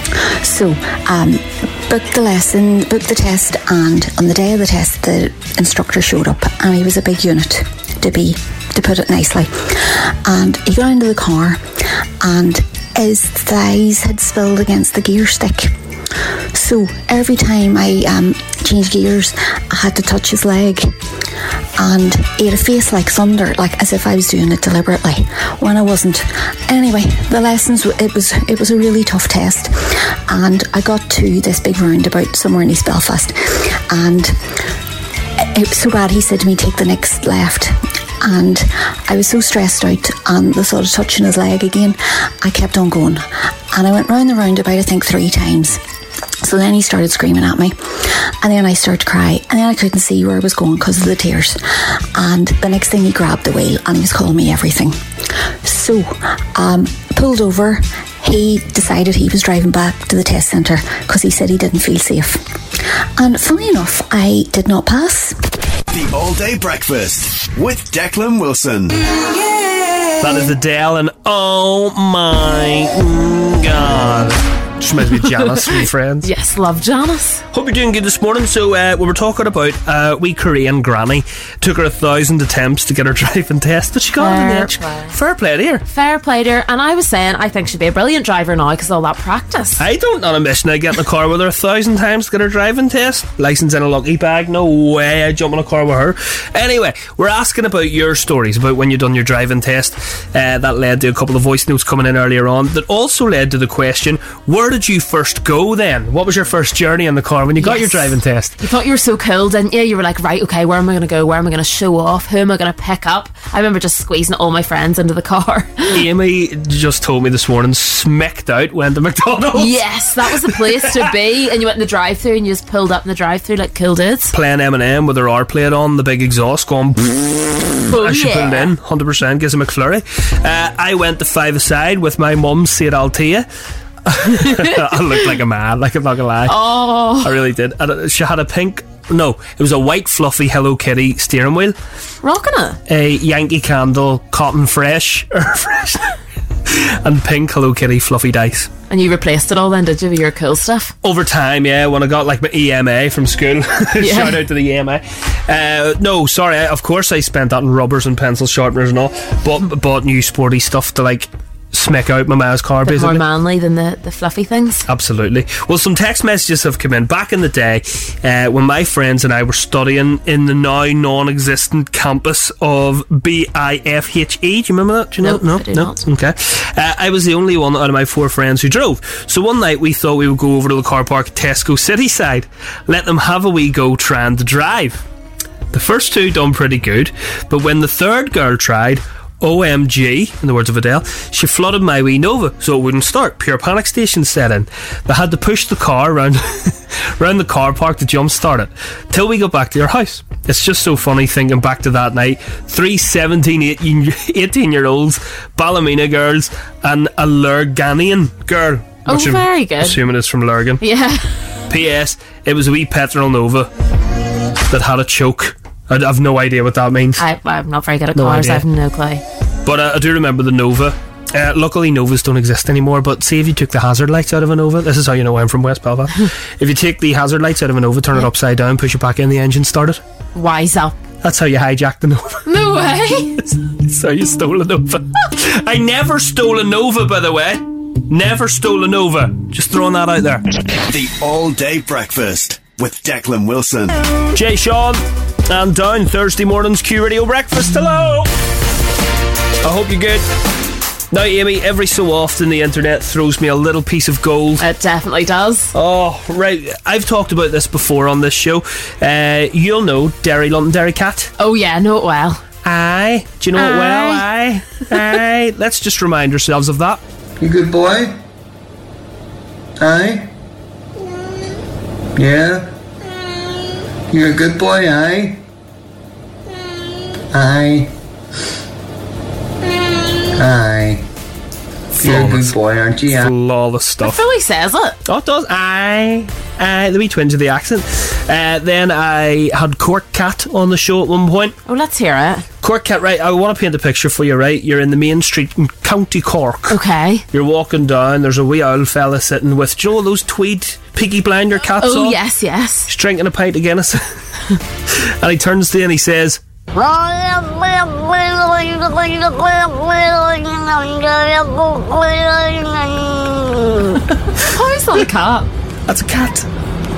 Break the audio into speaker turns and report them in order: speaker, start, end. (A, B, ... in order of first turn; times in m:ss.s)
0:00.4-0:11.6 A
0:12.2-0:15.7 A
0:16.5-0:20.9 A
0:21.8-0:34.4 A
0:35.5-0:45.8 A
0:46.4-0:55.0 A
0:55.6-1:02.4 A
1:03.2-1:05.4 A
1:05.9-1:09.0 B
1:10.2-1:16.3 C
1:16.2-1:17.4 D
1:17.5-1:25.8 C
1:24.2-1:25.1 D
1:25.9-1:29.8 D
1:29.8-1:48.5 C
1:47.6-1:56.0 D
1:55.9-1:59.8 C
1:59.5-2:04.3 D
2:00.4-2:01.0 C
2:04.3-2:13.5 C
2:07.9-2:08.7 D
2:14.0-2:16.6 C
2:16.5-2:17.3 D
2:17.2-2:21.8 C
2:22.2-2:22.8 D
2:22.9-2:26.1 C
2:26.7-2:28.7 C
2:28.9-2:30.9 D
2:31.0-2:43.2 C
2:34.0-2:34.4 D
2:42.8-2:44.9 D
2:44.9-3:05.0 C
2:55.2-2:56.0 D
3:05.7-3:30.8 C
3:29.1-3:30.0 D
3:30.8-3:31.2 D
3:31.7-3:33.7 C
3:34.7-3:37.2 C
3:37.2-3:39.2 D
3:38.1-3:38.6 C
3:39.6-3:50.0 C
3:50.3-3:50.9 D
3:51.2-3:52.5 C
3:52.4-3:53.4 D
3:53.4-4:00.4 C
4:00.9-4:04.0 B
4:04.3-4:08.3 C
4:09.6-4:10.3 C
4:11.1-4:14.6 C
4:14.6-4:15.7 D
4:15.7-4:21.3 C
4:21.4-4:22.4 D
4:22.6-4:27.0 C
4:23.6-4:24.2 D
4:27.4-4:28.2 E
4:29.8-4:30.3 E
4:32.2-4:32.7 E
4:34.1-4:35.4 E
4:37.3-4:37.9 E
4:40.3-4:41.0 E
4:42.0-4:44.2 C
4:42.0-4:43.3 E
4:44.0-4:45.0 D
4:45.0-4:51.6 C
4:51.6-4:52.4 D
4:52.6-4:56.8 C
4:56.7-4:57.2 D
4:57.3-5:02.2 C
5:01.8-5:02.9 D
5:02.9-5:04.0 C
5:04.9-5:06.4 C
5:14.2-5:15.5 D
5:15.9-5:16.5 C